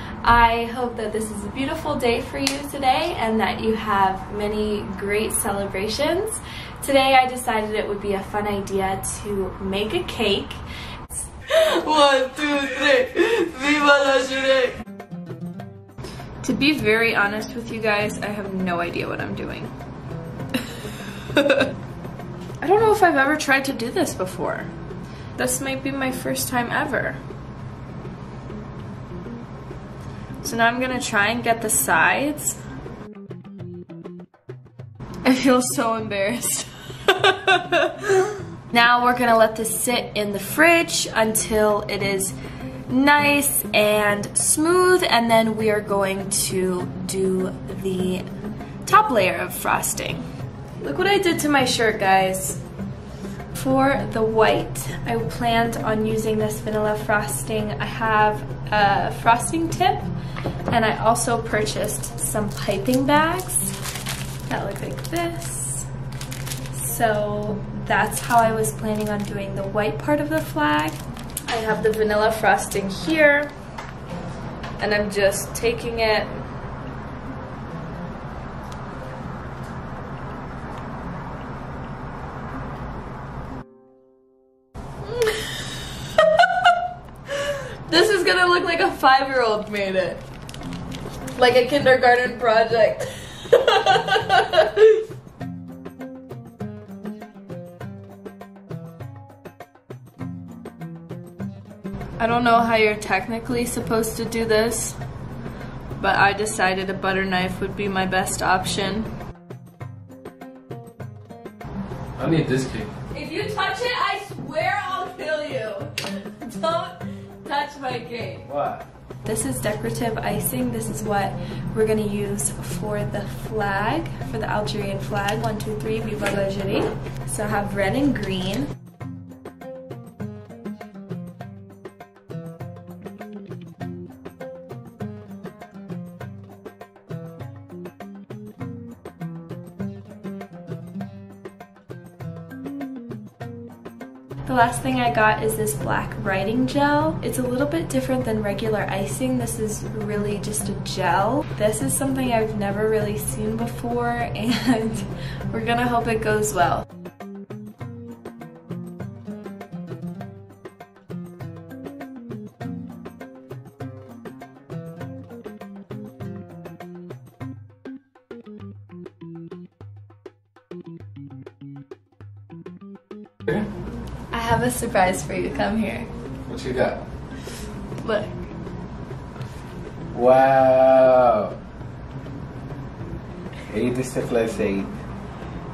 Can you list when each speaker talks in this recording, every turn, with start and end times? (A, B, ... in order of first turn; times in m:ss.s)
0:00.2-0:14.8 A
0:16.4-0:19.7 A
0:21.3-0:21.7 A
0:22.6-0:24.7 A
0:25.4-0:27.2 A
0:30.4-0:32.6 A
0:35.2-0:42.4 A
0:42.9-0:48.2 A
0:48.8-0:50.2 A
0:50.8-0:52.6 A
0:53.5-1:00.1 A
1:00.7-1:03.8 A
1:04.5-1:05.9 A
1:06.7-1:13.5 A
1:14.8-1:16.4 A
1:25.0-1:25.6 A
1:26.2-1:26.5 A
1:27.4-1:30.2 A
1:31.3-1:35.0 A
1:42.2-1:45.0 A
1:46.0-1:49.1 A
1:52.2-1:52.9 B
1:53.1-1:58.5 A
1:58.5-1:58.8 B
1:59.2-2:08.7 A
2:24.4-2:36.9 A
2:54.3-2:56.1 A
2:56.5-2:57.0 B
2:58.0-2:58.4 A
3:00.1-3:01.6 B
3:03.7-3:04.9 B